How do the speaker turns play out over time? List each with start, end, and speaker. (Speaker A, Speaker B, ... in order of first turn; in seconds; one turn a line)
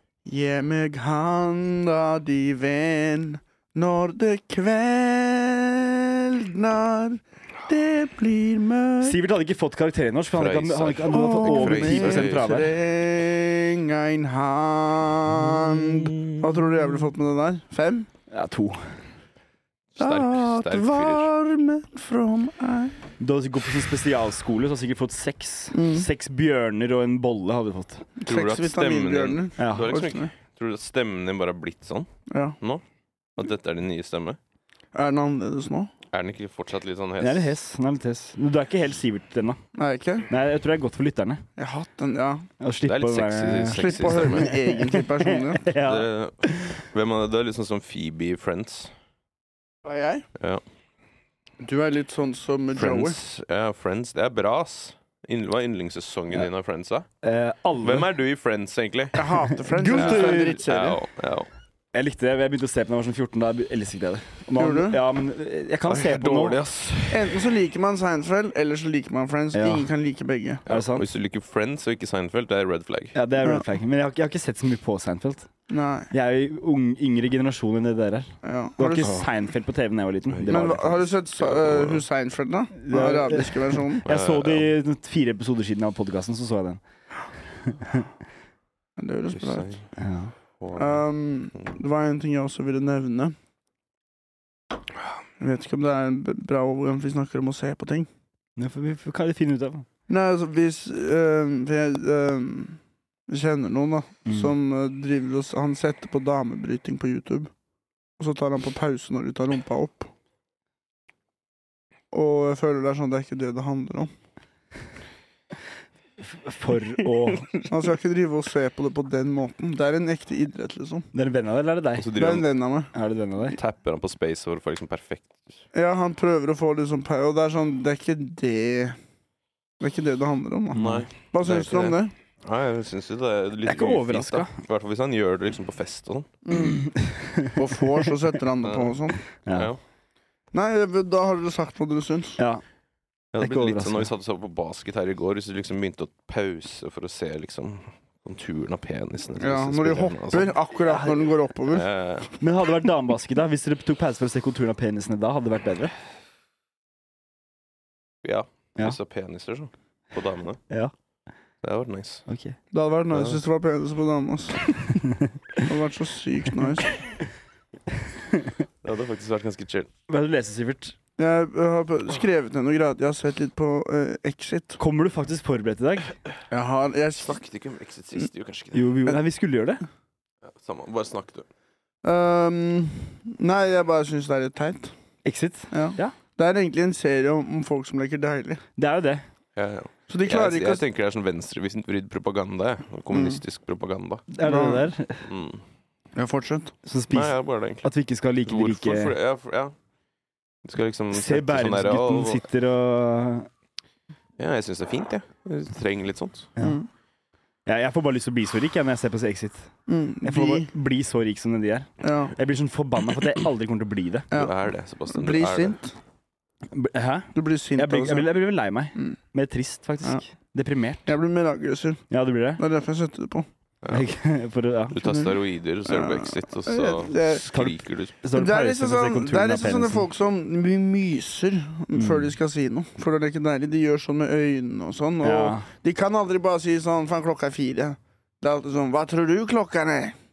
Speaker A: 0.2-9.2
Speaker B: 9.0-12.7
Speaker C: 10.3-12.7
Speaker A: 11.1-18.1
Speaker C: 15.5-16.6
Speaker B: 18.3-18.9
Speaker C: 19.9-21.3
Speaker A: 20.0-22.9
Speaker B: 23.2-28.1
Speaker A: 25.7-26.1
Speaker A: 28.2-30.3
Speaker C: 28.3-32.1
Speaker B: 29.6-29.9
Speaker A: 32.3-32.5
Speaker C: 33.4-34.4
Speaker A: 34.9-35.9
Speaker C: 36.1-37.5
Speaker B: 37.2-39.6
Speaker A: 39.7-40.3
Speaker B: 40.3-41.4
Speaker A: 41.6-42.5
Speaker B: 42.6-46.8
Speaker C: 42.8-44.5
Speaker A: 43.7-45.7
Speaker C: 45.7-48.9
Speaker A: 49.8-50.2
Speaker C: 50.4-50.6
Speaker A: 51.6-53.2
Speaker C: 52.7-57.1
Speaker B: 57.2-58.0
Speaker C: 57.8-61.5
Speaker A: 59.1-61.0
Speaker B: 59.7-60.6
Speaker B: 61.9-66.6
Speaker A: 64.5-65.0
Speaker C: 65.9-67.4
Speaker A: 67.1-70.6
Speaker B: 69.5-69.9
Speaker B: 70.7-71.1
Speaker C: 70.7-73.2
Speaker B: 73.1-75.5
Speaker A: 75.7-76.1
Speaker B: 76.1-80.8
Speaker A: 78.4-79.2
Speaker C: 80.3-82.0
Speaker A: 80.5-84.0
Speaker B: 82.8-86.8
Speaker C: 84.0-84.7
Speaker B: 87.7-88.0
Speaker A: 89.0-89.7
Speaker C: 89.3-89.9
Speaker B: 90.0-90.3
Speaker C: 90.6-91.0
Speaker A: 90.8-93.3
Speaker A: 95.4-98.1
Speaker B: 98.6-99.8
Speaker A: 100.1-107.5
Speaker B: 104.2-104.5
Speaker A: 108.2-110.1
Speaker A: 112.1-114.1
Speaker B: 116.2-117.5
Speaker C: 117.3-117.6
Speaker A: 117.7-121.1
Speaker B: 121.1-122.1
Speaker C: 122.0-122.5
Speaker A: 122.2-122.9
Speaker B: 122.9-123.6
Speaker C: 123.5-125.6
Speaker A: 125.7-129.0
Speaker A: 129.8-132.1
Speaker B: 130.7-131.1
Speaker C: 130.7-136.3
Speaker B: 133.6-134.5
Speaker A: 136.4-136.9
Speaker B: 136.6-137.6
Speaker A: 137.4-139.2
Speaker C: 138.6-139.8
Speaker B: 139.4-139.7
Speaker A: 140.5-142.4
Speaker C: 143.3-150.5
Speaker B: 143.4-144.1
Speaker A: 149.4-151.9
Speaker B: 150.9-151.2
Speaker C: 151.7-152.3
Speaker B: 152.4-155.9
Speaker C: 158.2-160.6
Speaker C: 161.6-162.2
Speaker B: 162.3-162.6
Speaker A: 162.7-165.0
Speaker C: 163.1-163.4
Speaker B: 165.0-165.7
Speaker A: 165.6-167.0
Speaker B: 168.2-168.5
Speaker C: 168.8-169.9
Speaker B: 170.1-170.9
Speaker A: 171.2-174.8
Speaker B: 174.8-176.1
Speaker A: 176.5-177.4
Speaker C: 177.2-178.9
Speaker B: 178.7-179.8
Speaker C: 180.4-181.5
Speaker A: 182.0-184.9
Speaker B: 185.2-186.1
Speaker A: 185.7-188.6
Speaker B: 188.8-189.2
Speaker C: 189.6-194.2
Speaker A: 190.1-190.8
Speaker A: 193.1-193.4
Speaker B: 194.3-195.3
Speaker A: 194.4-194.9
Speaker C: 195.2-195.6
Speaker A: 196.2-196.7
Speaker B: 196.8-199.1
Speaker C: 197.1-197.9
Speaker C: 198.4-199.7
Speaker C: 200.6-202.4
Speaker B: 201.1-203.5
Speaker C: 204.4-206.5
Speaker A: 206.6-206.9
Speaker B: 207.7-209.7
Speaker A: 209.9-210.7
Speaker B: 210.2-214.3
Speaker A: 212.0-212.3
Speaker A: 214.3-215.9
Speaker C: 214.3-215.8
Speaker B: 216.7-221.1
Speaker A: 217.3-218.3
Speaker A: 221.1-223.5
Speaker B: 222.1-222.6
Speaker B: 223.9-225.0
Speaker C: 224.9-228.1
Speaker A: 225.0-227.7
Speaker B: 227.5-230.0
Speaker A: 228.3-240.1
Speaker B: 231.9-232.3
Speaker B: 235.2-235.7